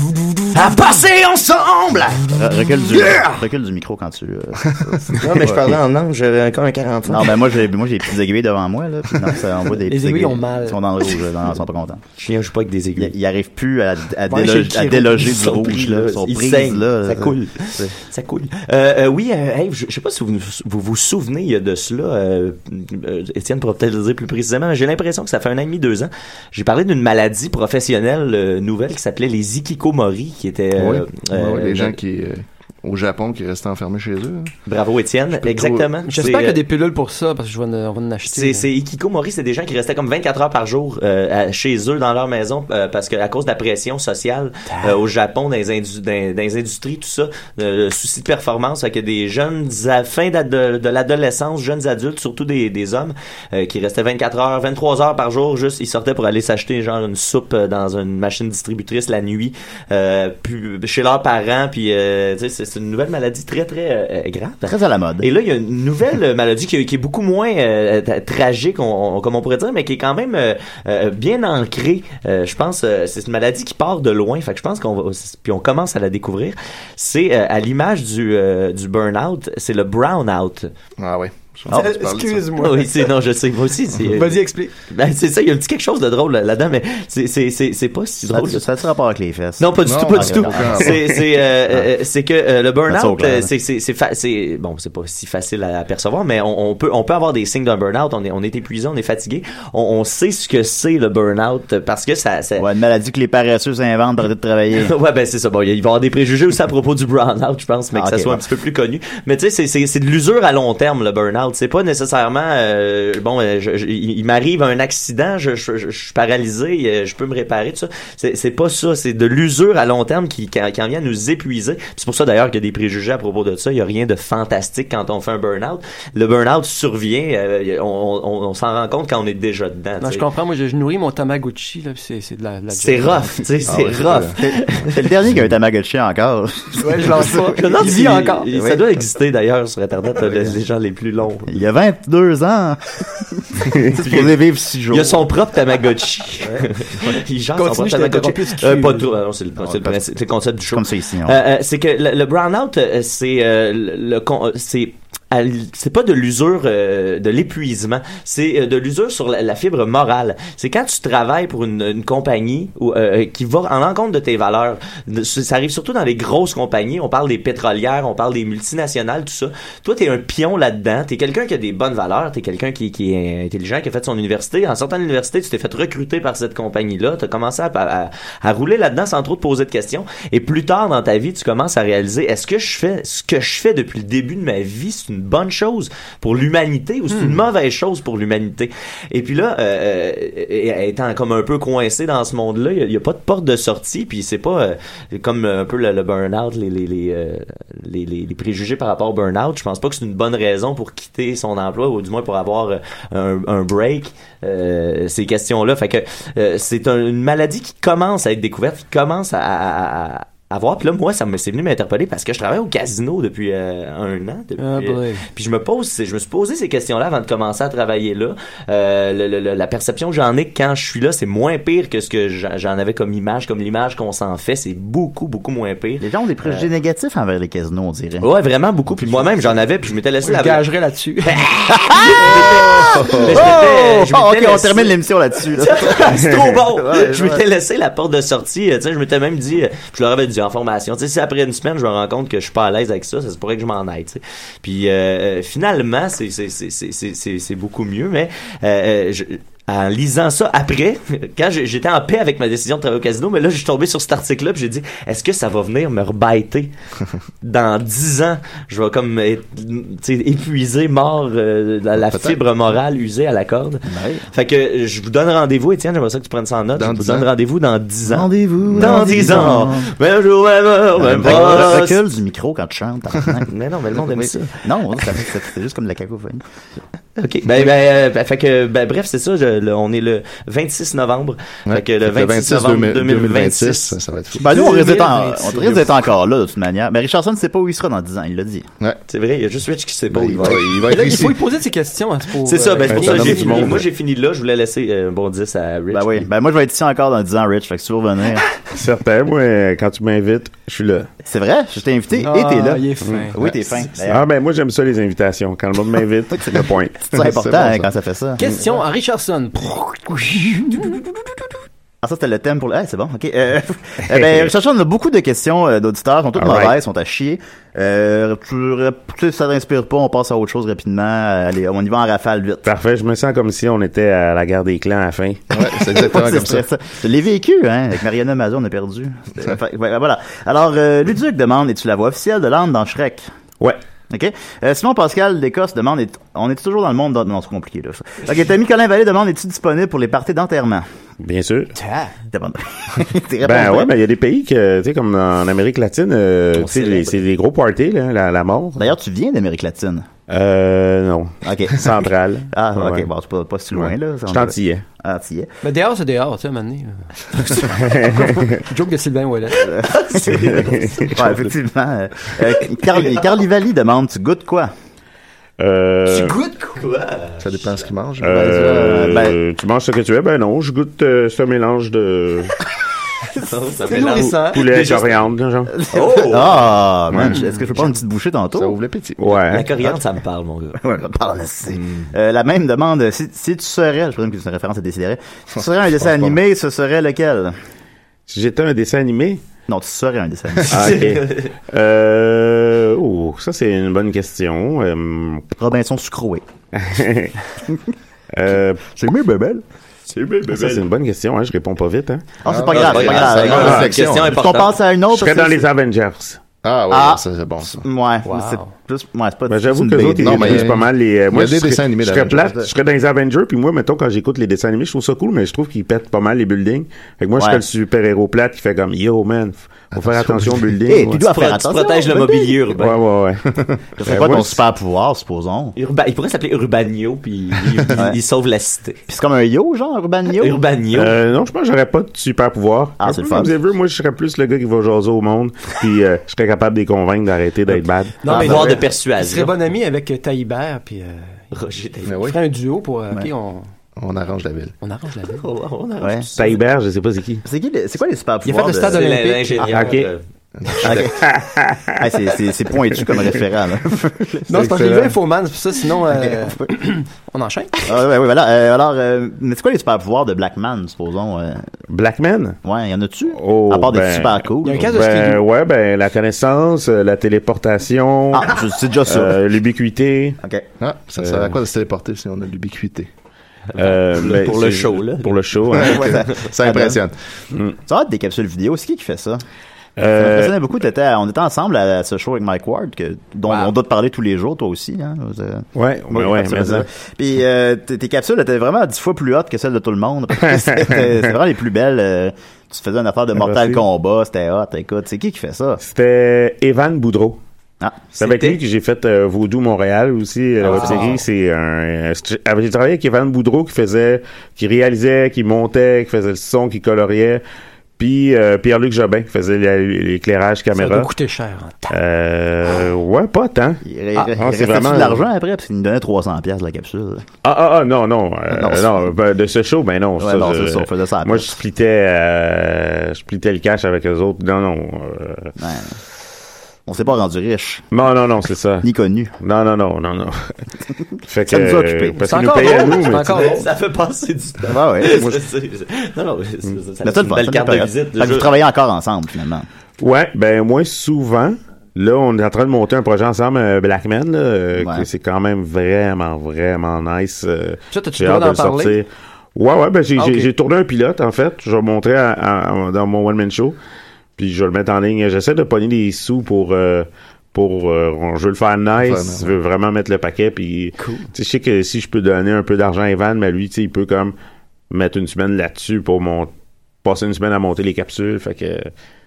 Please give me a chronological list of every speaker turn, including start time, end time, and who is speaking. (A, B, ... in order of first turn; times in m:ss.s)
0:00.4-0:03.4 A
0:02.3-0:05.6 B
0:05.2-0:07.5 A
0:07.1-0:12.0 B
0:09.8-0:10.8 C
0:12.2-0:13.1 A
0:13.0-0:17.9 B
0:14.3-0:15.0 C
0:14.3-0:32.0 A
0:30.7-0:34.5 D
0:34.7-0:36.6 A
0:35.3-0:35.9 D
0:36.0-0:38.7 C
0:38.3-1:20.7 A
1:04.6-1:05.3 B
1:21.0-1:22.6 D
1:21.7-1:23.0 C
1:22.6-1:28.6 A
1:24.1-1:24.7 C
1:28.2-1:30.8 B
1:29.6-1:42.7 A
1:29.8-1:31.0 D
1:32.9-1:33.5 B
1:42.6-1:44.9 B
1:44.7-2:10.2 A
1:47.9-1:48.4 B
2:10.0-2:13.4 C
2:12.7-2:15.1 A
2:13.6-2:14.4 D
2:14.9-2:17.4 B
2:16.8-2:18.5 C
2:17.3-2:21.6 A
2:18.5-2:18.8 B
2:21.5-2:25.2 B
2:24.0-2:24.3 A
2:24.9-3:46.7 A
2:27.6-2:29.1 C
2:29.6-2:30.0 B
2:30.7-2:31.4 B
3:34.6-3:35.2 C
3:46.0-3:48.3 B
3:48.2-3:50.6 A
3:50.2-3:51.4 C
3:51.2-3:55.0 A
3:51.7-3:57.4 B
3:53.0-3:53.3 D
3:55.5-4:16.7 A
4:17.4-4:32.0 A
4:22.0-4:22.4 D
4:23.9-4:24.2 B
4:26.8-4:27.3 D
4:28.1-4:29.9 B
4:31.0-4:33.5 B
4:33.5-4:35.0 A
4:34.6-4:36.4 B
4:37.2-4:44.0 A
4:41.7-4:44.6 D
4:44.4-4:45.9 C
4:44.4-4:48.6 B
4:49.1-4:51.0 A
4:50.1-4:51.4 D
4:50.8-4:53.7 C
4:52.4-4:56.3 A
4:52.9-4:53.8 E
4:53.0-4:53.8 D
4:55.9-4:58.5 B
4:58.7-5:01.1 E
5:01.2-5:04.2 B
5:02.2-5:03.4 C
5:03.0-5:03.3 E
5:04.0-5:07.1 E
5:07.1-5:08.6 B
5:07.1-5:07.9 D
5:08.4-5:11.0 C
5:12.0-5:22.6 B
5:14.1-5:14.4 E
5:16.4-5:16.8 E
5:22.6-5:25.4 E
5:25.5-5:26.6 D
5:25.9-5:33.3 B
5:34.1-5:40.8 B
5:41.2-5:41.7 E
5:41.7-5:42.1 C
5:42.3-5:43.9 B
5:43.4-5:48.9 E
5:46.5-5:47.2 A
5:48.8-5:50.0 B
5:50.3-5:53.1 E
5:51.4-5:51.9 B
5:52.5-5:55.5 B
5:53.7-5:54.8 E
5:55.6-5:59.7 C
5:57.8-5:58.6 E
5:59.6-6:04.7 B
5:59.8-6:01.3 A
6:00.5-6:01.2 E
6:05.6-6:06.4 E
6:06.1-6:06.8 C
6:06.8-6:07.7 A
6:07.4-6:09.2 D
6:08.2-6:12.6 E
6:08.3-6:09.4 B
6:13.4-6:15.3 A
6:13.8-6:14.6 C
6:14.1-6:15.7 E
6:15.8-6:18.8 B
6:15.9-6:16.8 A
6:18.5-6:19.2 D
6:19.2-6:19.7 E
6:19.5-6:20.8 A
6:20.8-6:27.5 B
6:21.7-6:22.1 A
6:25.6-6:26.4 D
6:28.3-6:29.4 E
6:29.7-6:31.0 B
6:30.7-6:35.5 E
6:30.7-6:31.5 A
6:35.6-6:36.4 B
6:36.7-6:37.4 E
6:38.3-6:38.8 E
6:38.9-6:39.6 B
6:40.1-6:40.8 A
6:40.5-6:42.3 E
6:42.4-6:45.7 B
6:42.4-6:44.4 D
6:42.7-6:44.8 A
6:43.4-6:43.9 E
6:45.1-6:46.4 E
6:46.6-6:47.8 D
6:46.9-6:50.7 B
6:48.2-6:48.7 C
6:49.5-7:01.2 E
6:50.1-6:52.7 D
6:57.4-6:57.6 B
6:59.9-7:00.7 D
7:00.8-7:02.6 B
7:01.3-7:03.0 A
7:02.7-7:03.4 E
7:04.0-7:05.8 B
7:04.0-7:04.6 E
7:05.8-7:09.0 A
7:09.1-7:10.6 B
7:10.3-7:11.1 A
7:10.9-7:18.7 E
7:13.0-7:13.5 B
7:18.2-7:21.4 C
7:18.2-7:19.5 A
7:21.5-7:22.2 A
7:22.0-7:22.4 D
7:22.2-7:23.7 C
7:24.0-7:24.7 D
7:24.8-7:25.4 C
7:25.4-7:26.6 A
7:26.0-7:26.3 B
7:26.4-7:27.4 E
7:27.4-7:29.2 B
7:28.4-7:30.0 C
7:28.8-7:30.2 A
7:29.6-7:30.1 E
7:30.6-7:31.1 D
7:30.8-7:31.2 B
7:31.1-7:32.1 E
7:32.0-7:34.5 B
7:34.5-7:38.0 C
7:34.5-7:35.1 D
7:37.8-7:41.6 B
7:41.9-7:42.6 E
7:42.6-7:44.9 B
7:43.3-7:50.4 E
7:44.6-7:45.4 C
7:48.3-7:49.4 B
7:50.8-7:53.1 D
7:51.2-7:51.6 E
7:53.7-7:55.5 A
7:53.8-7:56.1 E
7:55.7-7:57.1 D
7:56.0-7:57.0 B
7:57.9-7:59.4 B
8:00.0-8:00.6 E
8:00.2-8:15.8 B
8:05.7-8:06.9 E
8:10.5-8:11.2 E
8:13.3-8:13.8 E
8:15.8-8:17.4 E
8:17.8-8:18.0 B
8:18.1-8:18.6 A
8:18.2-8:27.4 E
8:20.6-8:21.2 B
8:20.7-8:21.2 C
8:28.0-8:31.1 E
8:30.7-8:32.0 C
8:31.9-8:33.8 E
8:33.8-8:37.2 B
8:34.3-8:35.2 E
8:37.4-8:45.5 E
8:38.5-8:39.0 B
8:40.2-8:41.5 B
8:45.6-8:46.0 B
8:46.9-8:47.8 B
8:47.9-8:48.9 E
8:48.8-8:49.3 B
8:49.4-8:50.6 E
8:51.3-8:53.6 E
8:51.5-8:52.2 B
8:52.2-8:53.7 C
8:52.7-8:58.5 A
8:54.6-8:55.3 B
8:57.0-8:59.6 B
9:00.0-9:13.8 E
9:04.8-9:05.0 B
9:07.9-9:09.0 C
9:10.2-9:10.5 C
9:14.4-9:24.3 E
9:19.0-9:19.5 D
9:21.0-9:21.3 C
9:24.9-9:26.5 E
9:27.0-9:28.9 E